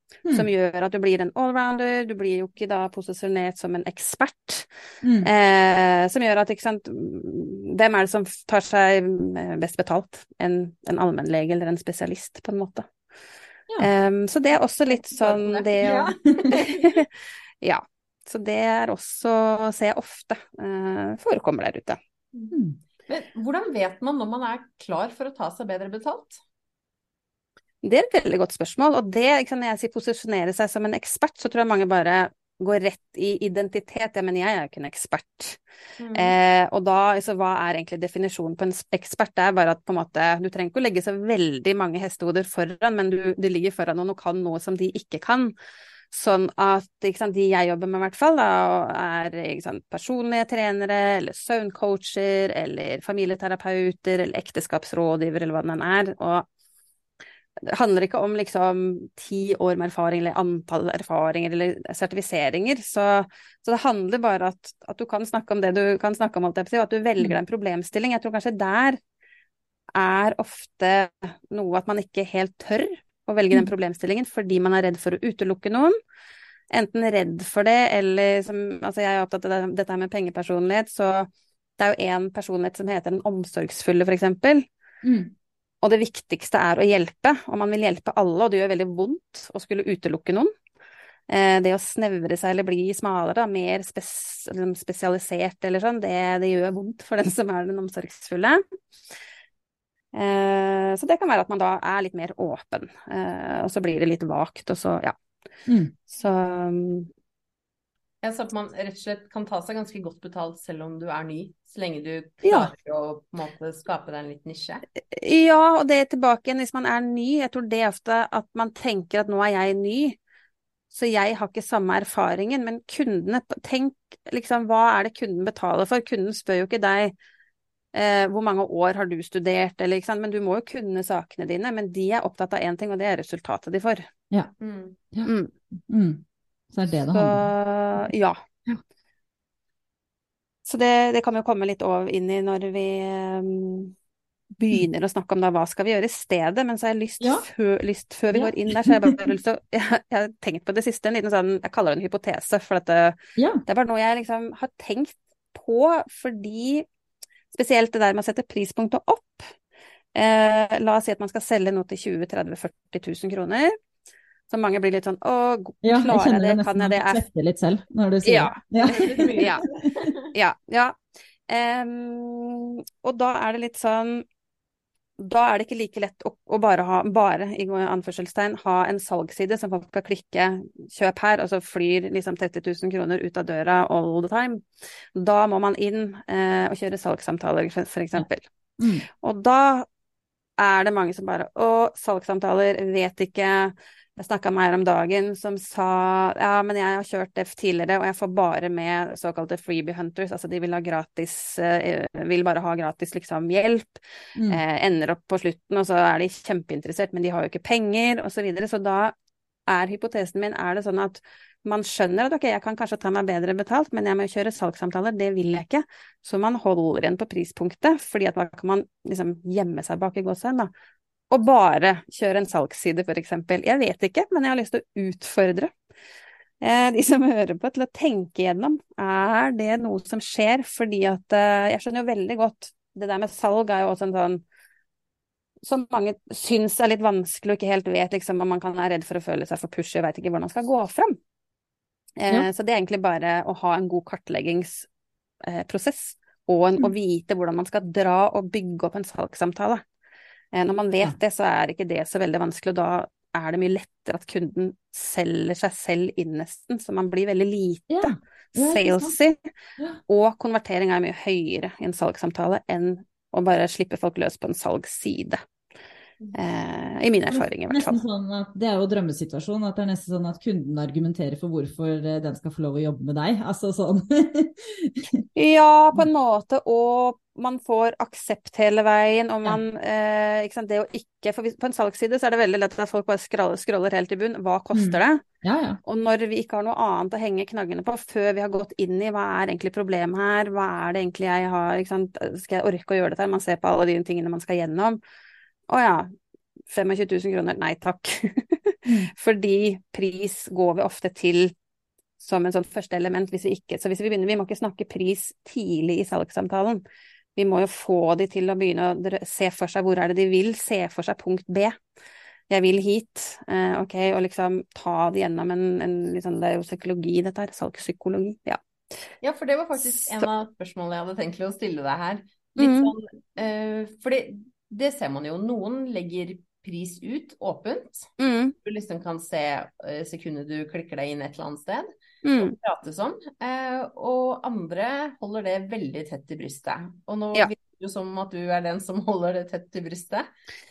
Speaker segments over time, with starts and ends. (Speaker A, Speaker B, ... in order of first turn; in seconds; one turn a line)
Speaker A: 0.3-4.7
Speaker B: 5.0-5.3
Speaker A: 5.2-12.9
Speaker A: 13.8-17.0
Speaker C: 14.9-17.1
Speaker A: 17.6-22.0
Speaker B: 22.5-22.8
Speaker C: 23.1-26.4
Speaker A: 27.8-35.6
Speaker C: 36.0-36.4
Speaker A: 36.1-45.5
Speaker A: 46.1-56.5
Speaker A: 57.6-69.0
Speaker A: 70.0-76.0
Speaker A: 76.7-84.7
Speaker B: 85.0-85.3
Speaker A: 85.8-90.5
Speaker A: 91.3-98.6
Speaker A: 100.1-105.2
Speaker B: 105.7-105.9
Speaker A: 106.1-107.1
Speaker C: 108.2-114.8
Speaker A: 112.4-112.7
Speaker A: 115.1-120.2
Speaker A: 120.9-127.1
Speaker A: 127.9-134.0
Speaker C: 134.6-135.0
Speaker B: 135.1-137.5
Speaker A: 135.2-135.5
Speaker A: 137.1-138.4
Speaker A: 140.7-143.9
Speaker A: 144.6-156.9
Speaker B: 147.2-147.5
Speaker B: 148.3-149.2
Speaker B: 153.4-153.6
Speaker A: 157.5-159.5
Speaker A: 160.2-163.7
Speaker A: 164.5-167.2
Speaker B: 165.8-169.9
Speaker A: 168.2-169.6
Speaker C: 168.8-170.3
Speaker A: 170.3-174.2
Speaker A: 175.2-188.5
Speaker B: 188.8-189.1
Speaker A: 189.1-189.9
Speaker A: 190.6-209.1
Speaker B: 204.3-204.6
Speaker A: 209.7-220.7
Speaker A: 221.3-225.7
Speaker A: 226.6-234.4
Speaker A: 235.6-241.2
Speaker A: 242.2-244.9
Speaker A: 245.4-249.8
Speaker A: 250.5-259.4
Speaker B: 257.9-259.2
Speaker A: 260.1-265.4
Speaker A: 266.3-268.0
Speaker B: 267.3-275.2
Speaker A: 275.4-285.2
Speaker B: 284.7-285.8
Speaker A: 285.8-295.0
Speaker A: 295.7-296.1
Speaker A: 296.7-301.5
Speaker B: 298.9-299.1
Speaker A: 302.2-306.8
Speaker A: 307.4-311.8
Speaker A: 312.5-318.6
Speaker C: 319.2-328.1
Speaker A: 319.8-320.3
Speaker A: 322.6-322.9
Speaker A: 328.2-328.6
Speaker C: 328.6-340.3
Speaker A: 332.2-332.6